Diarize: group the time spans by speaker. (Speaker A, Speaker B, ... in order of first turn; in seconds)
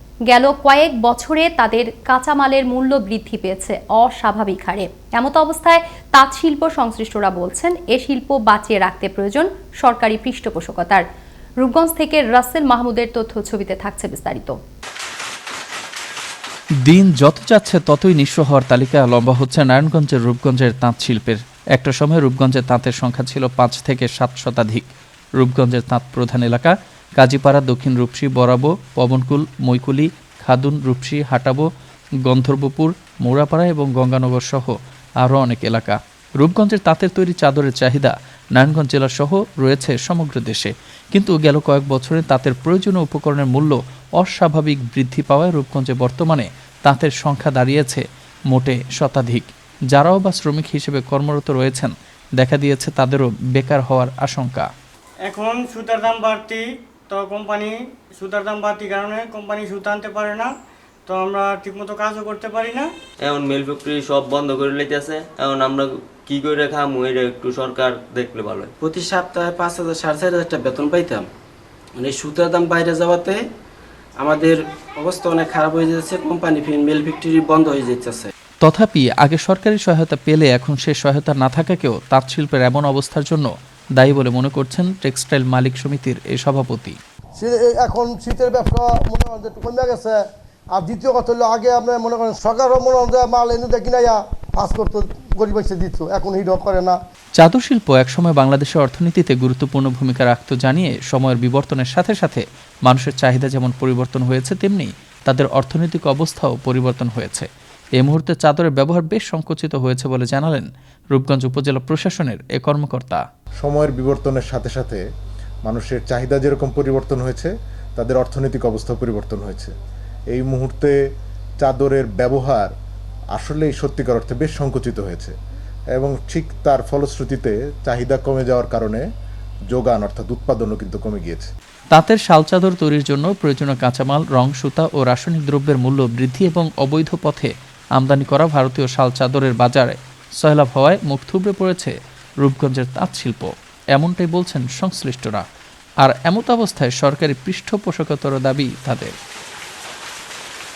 Speaker A: 0.3-11.0, 11.6-14.6
Speaker B: 16.8-24.9, 25.4-31.7, 32.2-54.7, 78.6-87.0, 97.4-113.2, 131.9-145.4, 146.0-149.1
Speaker C: 55.2-60.5, 61.1-62.9
Speaker D: 63.2-68.7
Speaker E: 68.8-71.2, 72.0-73.4, 74.2-78.3
Speaker F: 87.3-97.0
Speaker G: 113.6-115.0, 115.7-119.7, 120.3-120.9, 121.6-122.7, 123.3-125.3, 125.9-129.0, 129.7-131.5